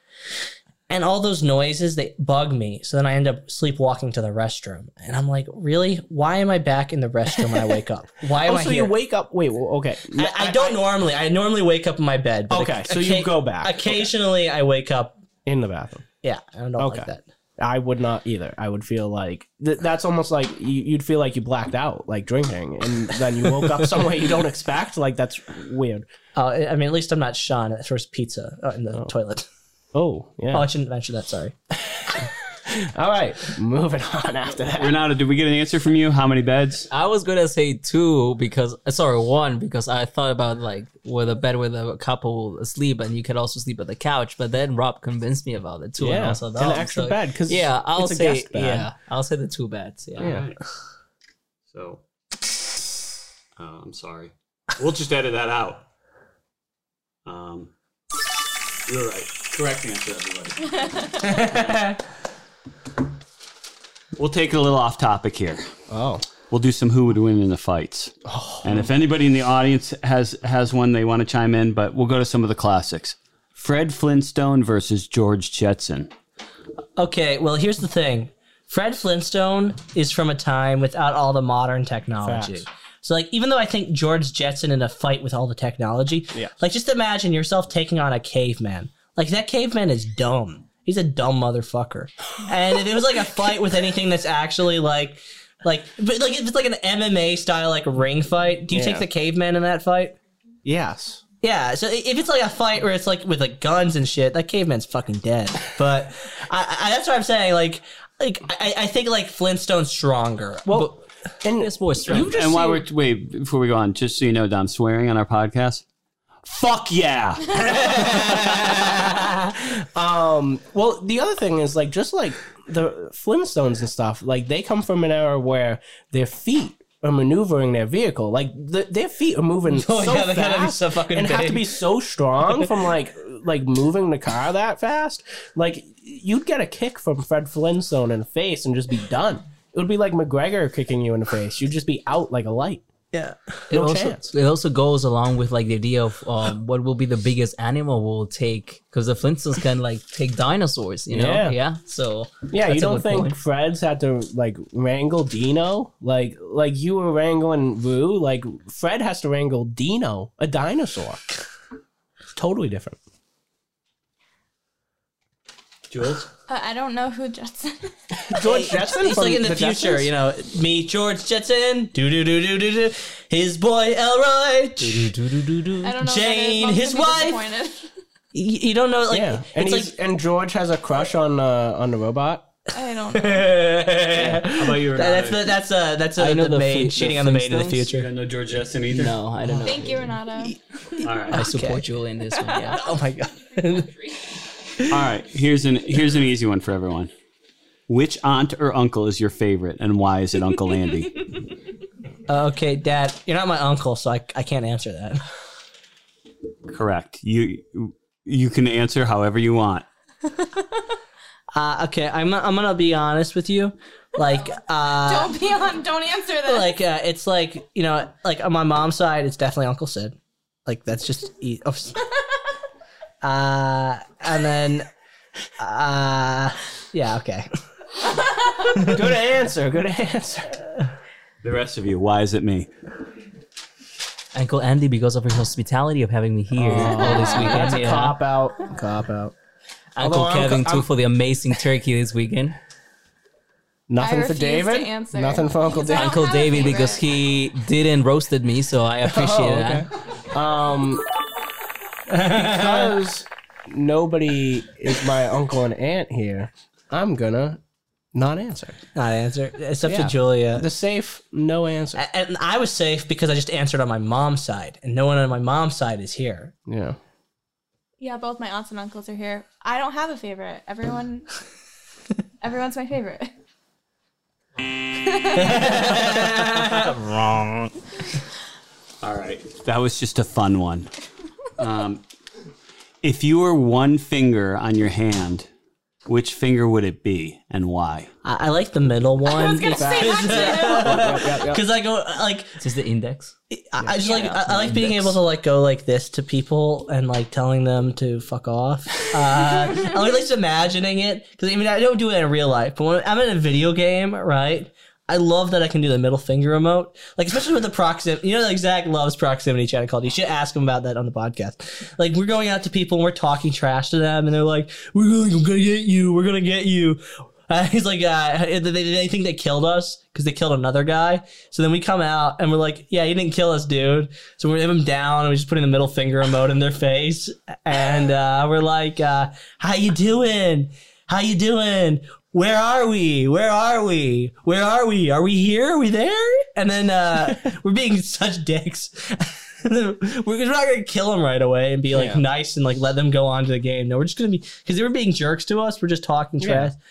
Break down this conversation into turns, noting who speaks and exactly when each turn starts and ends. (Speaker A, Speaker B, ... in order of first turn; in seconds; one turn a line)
Speaker A: 0.9-8.9
Speaker B: 8.4-10.8
Speaker A: 10.2-15.2
Speaker B: 12.5-14.1
Speaker B: 15.5-16.1
Speaker A: 16.2-17.2
Speaker B: 16.8-26.1
Speaker A: 26.4-29.5
Speaker B: 29.9-30.7
Speaker A: 30.5-31.6
Speaker B: 31.9-35.0
Speaker C: 34.7-36.9
Speaker D: 36.9-46.3
Speaker B: 46.0-48.9
Speaker A: 46.0-47.2
Speaker D: 47.5-50.4
Speaker C: 50.2-50.6
Speaker C: 51.7-52.0
Speaker C: 53.6-55.9
Speaker C: 57.3-57.7
Speaker C: 58.9-62.0
Speaker A: 61.2-61.8
Speaker C: 64.2-65.7
Speaker B: 65.9-66.3
Speaker C: 66.5-76.1
Speaker B: 68.3-68.9
Speaker A: 77.0-100.2
Speaker B: 82.2-82.7
Speaker B: 98.7-99.0
Speaker B: 100.6-101.2
Speaker A: 101.4-110.9
Speaker B: 110.7-112.8
Speaker D: 111.6-112.3
Speaker C: 112.1-115.8
Speaker C: 116.4-119.1
Speaker A: 117.8-119.4
Speaker B: 120.0-142.9
Speaker A: 129.7-131.7
Speaker A: 143.1-143.5
Speaker B: 143.7-144.3
Speaker D: 143.7-153.4
Speaker B: 151.1-151.6
Speaker B: 152.5-161.2
Speaker B: 162.3-163.0
Speaker C: 165.9-166.3
Speaker E: 166.5-168.4
Speaker B: 168.3-170.1
Speaker A: 168.4-175.1
Speaker D: 174.8-175.9
Speaker E: 175.8-177.9
Speaker A: 175.9-177.4
Speaker A: 178.3-179.9
Speaker B: 179.1-182.5
Speaker E: 182.7-183.8
Speaker A: 183.1-188.1
Speaker C: 184.4-185.6
Speaker D: 186.2-187.9
Speaker C: 187.9-189.2
Speaker D: 188.9-190.2
Speaker E: 189.6-190.6
Speaker C: 191.0-191.4
Speaker D: 191.3-192.9
Speaker A: 191.3-191.8
Speaker A: 192.7-194.1
Speaker C: 194.9-197.1
Speaker C: 197.9-201.3
Speaker A: 202.3-205.2
Speaker C: 206.7-209.9
Speaker A: 211.5-215.4
Speaker E: 215.1-216.8
Speaker A: 216.4-222.1
Speaker A: 223.2-224.9
Speaker A: 225.6-227.5
Speaker A: 228.6-229.0
Speaker B: 228.8-230.7
Speaker C: 231.4-232.7
Speaker D: 234.3-238.2
Speaker B: 236.5-239.3
Speaker E: 237.2-237.7
Speaker D: 240.0-242.6
Speaker B: 240.0-240.9
Speaker B: 243.9-246.4
Speaker E: 244.0-247.1
Speaker D: 245.9-249.9
Speaker B: 249.0-251.1
Speaker A: 252.1-253.0
Speaker B: 252.2-257.6
Speaker B: 258.1-258.8
Speaker A: 258.9-260.7
Speaker B: 259.9-262.0
Speaker A: 261.9-266.5
Speaker B: 266.7-267.0
Speaker E: 268.0-271.3
Speaker E: 272.4-273.3
Speaker E: 275.1-276.1
Speaker A: 275.4-277.0
Speaker C: 279.0-280.9
Speaker C: 281.6-282.0
Speaker C: 283.0-285.5
Speaker C: 286.1-288.1
Speaker A: 288.2-292.6
Speaker E: 289.3-291.1
Speaker B: 289.6-291.6
Speaker D: 292.6-293.4
Speaker A: 293.5-346.8
Speaker D: 294.0-295.2
Speaker B: 341.9-342.2
Speaker B: 346.4-346.7